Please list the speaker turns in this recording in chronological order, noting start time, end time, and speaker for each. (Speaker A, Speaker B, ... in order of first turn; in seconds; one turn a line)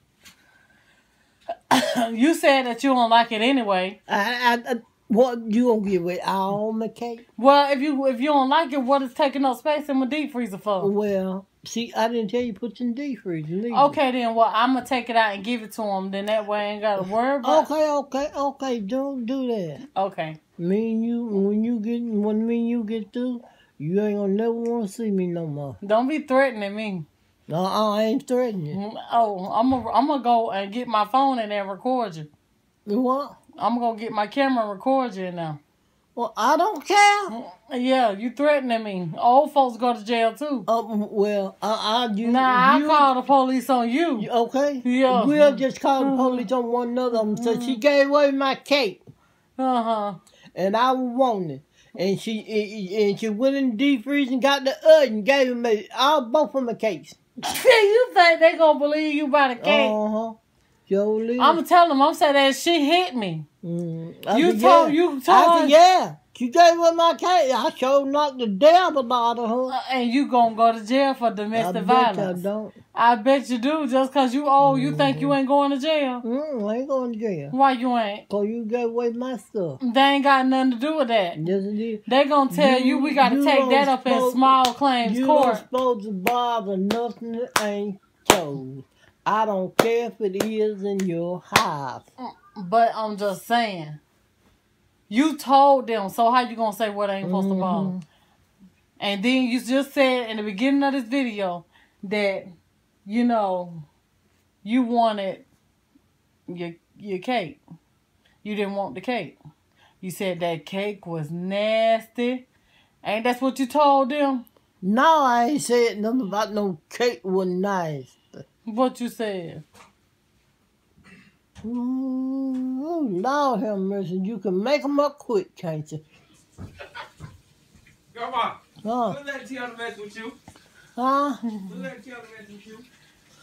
Speaker A: 1.7-4.0
Speaker B: 4.1-7.2
Speaker A: 7.4-10.9
Speaker B: 10.8-14.0
Speaker A: 13.7-17.7
Speaker B: 17.4-19.8
Speaker A: 19.9-20.4
Speaker B: 20.6-25.8
Speaker A: 25.8-27.1
Speaker B: 27.5-28.8
Speaker A: 28.7-32.3
Speaker B: 32.9-33.4
Speaker A: 33.6-35.6
Speaker B: 36.1-37.3
Speaker A: 37.3-40.7
Speaker B: 40.7-43.1
Speaker A: 42.2-44.3
Speaker B: 44.2-49.0
Speaker A: 44.8-46.5
Speaker A: 47.1-47.8
Speaker A: 49.6-50.2
Speaker B: 50.5-57.2
Speaker A: 57.4-60.0
Speaker B: 59.6-61.6
Speaker A: 61.4-63.5
Speaker B: 63.6-69.8
Speaker A: 64.3-65.8
Speaker A: 69.7-72.4
Speaker B: 71.5-72.8
Speaker A: 72.9-76.2
Speaker B: 74.6-75.4
Speaker B: 76.2-77.5
Speaker A: 77.5-78.2
Speaker B: 78.3-79.8
Speaker A: 79.8-81.5
Speaker B: 81.3-92.1
Speaker A: 82.1-85.6
Speaker A: 92.2-94.0
Speaker A: 95.1-97.9
Speaker B: 97.2-98.0
Speaker A: 99.0-102.5
Speaker A: 103.0-103.8
Speaker A: 104.6-105.5
Speaker A: 106.5-107.6
Speaker A: 108.4-109.3
Speaker A: 110.0-112.5
Speaker A: 113.0-114.5
Speaker B: 114.8-118.2
Speaker A: 118.6-119.6
Speaker B: 121.6-126.0
Speaker C: 128.1-130.4
Speaker B: 128.8-129.2
Speaker B: 131.0-131.4
Speaker C: 131.6-132.8